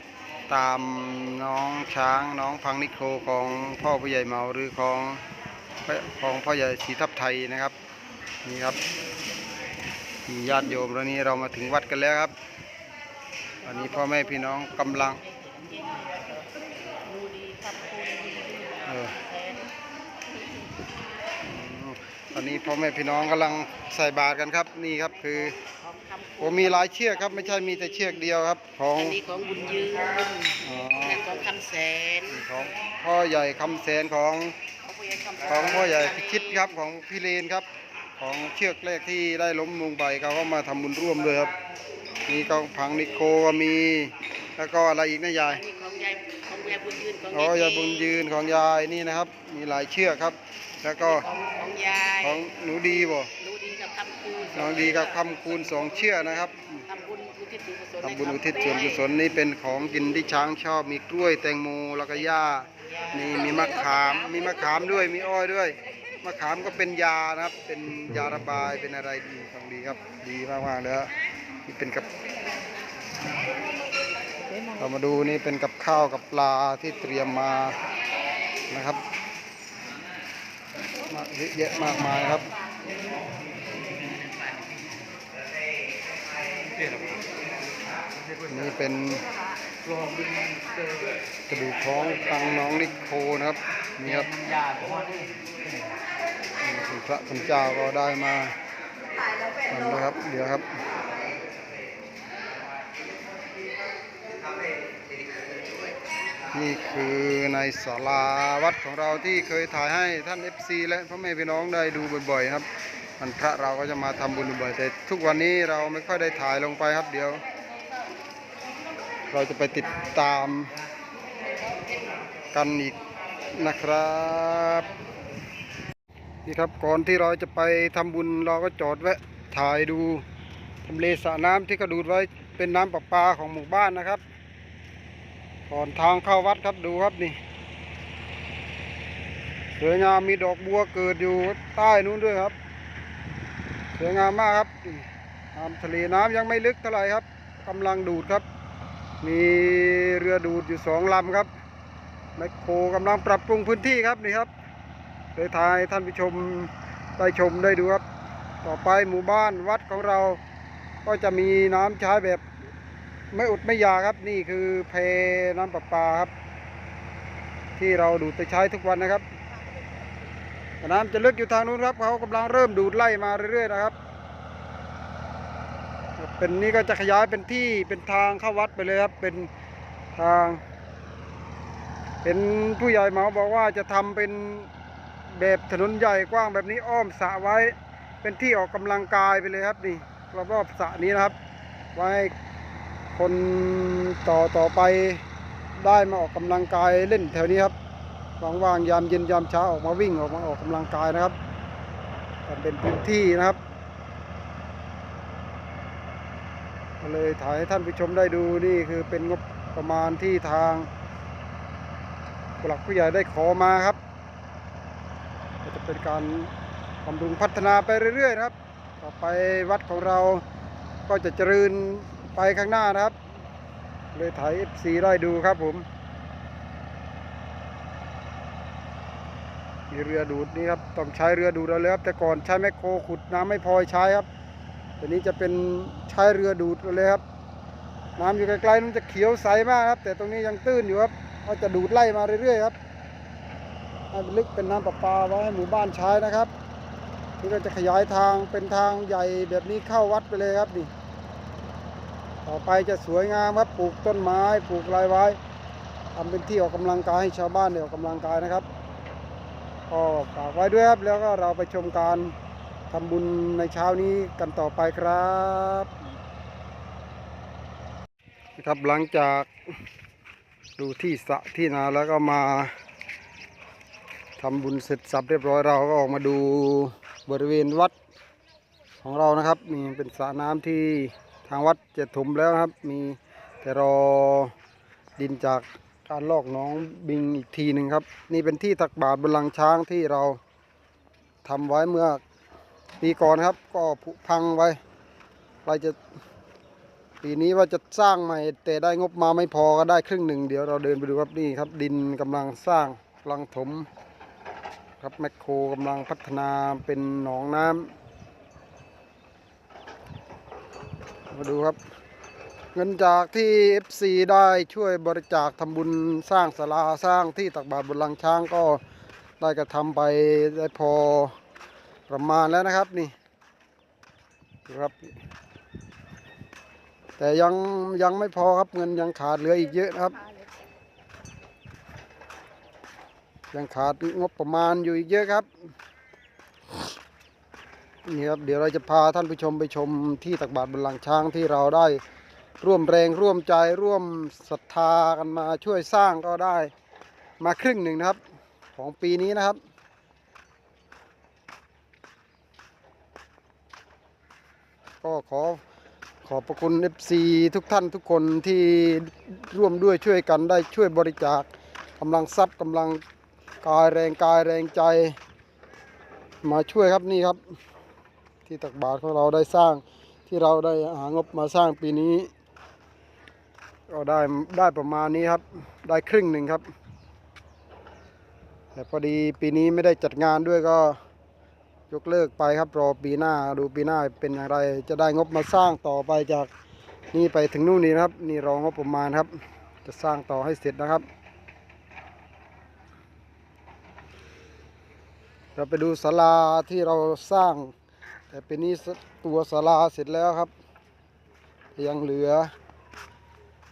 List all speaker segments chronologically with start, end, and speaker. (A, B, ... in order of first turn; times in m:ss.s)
0:00.5-0:05.2 A
0:05.8-0:07.8 A
0:08.4-0:08.8 A
0:10.3-0:12.3 A
0:13.6-0:15.2 A
0:13.7-0:14.4 B
0:14.9-0:19.7 B
0:18.9-0:19.2 A
0:21.4-0:25.6 A
0:25.8-0:28.3 B
0:26.4-0:29.2 A
0:29.0-0:32.3 B
0:30.6-0:31.2 A
0:32.3-0:34.6 A
0:34.9-0:36.6 B
0:35.4-0:37.7 A
0:38.2-0:41.5 A
0:42.3-0:45.6 A
0:45.5-0:48.3 B
0:47.3-0:51.2 A
0:51.0-0:52.5 B
0:52.2-0:53.3 A
0:53.3-0:55.4 B
0:54.6-0:56.9 A
0:56.9-0:59.1 B
0:58.0-1:11.1 A
1:11.7-1:12.1 A
1:14.8-1:17.8 A
1:18.7-1:19.0 A
1:21.1-1:22.5 A
1:28.5-1:29.2 A
1:31.5-1:34.4 A
1:36.6-1:38.6 A
1:39.7-1:40.8 A
1:46.5-1:52.7 A
1:53.2-1:57.4 A
1:59.3-2:00.7 A
2:02.5-2:03.0 A
2:03.6-2:04.9 A
2:06.4-2:10.3 A
2:10.8-2:14.2 A
2:15.7-2:17.4 A
2:19.8-2:22.6 A
2:24.0-2:28.4 A
2:29.2-2:31.5 A
2:32.4-2:34.5 A
2:35.4-2:38.0 A
2:38.6-2:40.4 A
2:41.0-2:42.4 A
2:43.3-2:46.3 A
2:47.8-2:49.2 A
2:50.8-2:54.0 A
2:56.2-2:59.5 A
3:00.1-3:00.6 A
3:02.2-3:04.7 A
3:05.3-3:11.4 A
3:12.0-3:12.3 A
3:13.1-3:15.2 A
3:15.8-3:17.8 A
3:18.4-3:21.4 A
3:22.5-3:23.6 A
3:27.0-3:30.9 A
3:32.6-3:34.0 A
3:35.6-3:36.5 A
3:37.0-3:40.4 A
3:41.1-3:43.2 A
3:44.1-3:45.9 A
3:49.9-3:54.3 A
3:55.0-3:57.2 A
3:58.2-4:02.8 A
4:04.1-4:06.5 A
4:07.4-4:10.9 A
4:12.4-4:15.4 A
4:16.1-4:18.7 A
4:19.9-4:22.3 A
4:22.9-4:25.9 A
4:28.6-4:29.5 A
4:30.8-4:32.7 A
4:34.4-4:38.0 A
4:39.0-4:44.5 A
4:45.2-4:50.4 A
4:51.4-4:52.2 A
4:53.0-4:54.8 A
4:55.6-4:56.0 A
4:57.2-5:03.9 A
5:05.0-5:07.9 A
5:11.3-5:11.8 A
5:12.7-5:18.8 A
5:19.4-5:21.4 A
5:22.1-5:23.1 A
5:24.7-5:25.1 A
5:27.2-5:30.3 A
5:33.5-5:35.5 A
5:38.0-5:42.0 A
5:42.6-5:46.7 A
5:47.4-5:48.2 A
5:48.8-5:49.6 A
5:55.0-5:55.6 A
5:56.2-6:03.0 A
6:03.6-6:05.2 A
6:06.4-6:07.4 A
6:08.4-6:12.3 A
6:13.9-6:16.6 A
6:18.7-6:21.0 A
6:21.9-6:26.5 A
6:27.1-6:29.3 A
6:29.8-6:31.0 A
6:35.6-6:37.7 A
6:38.3-6:40.5 A
6:41.8-6:42.5 A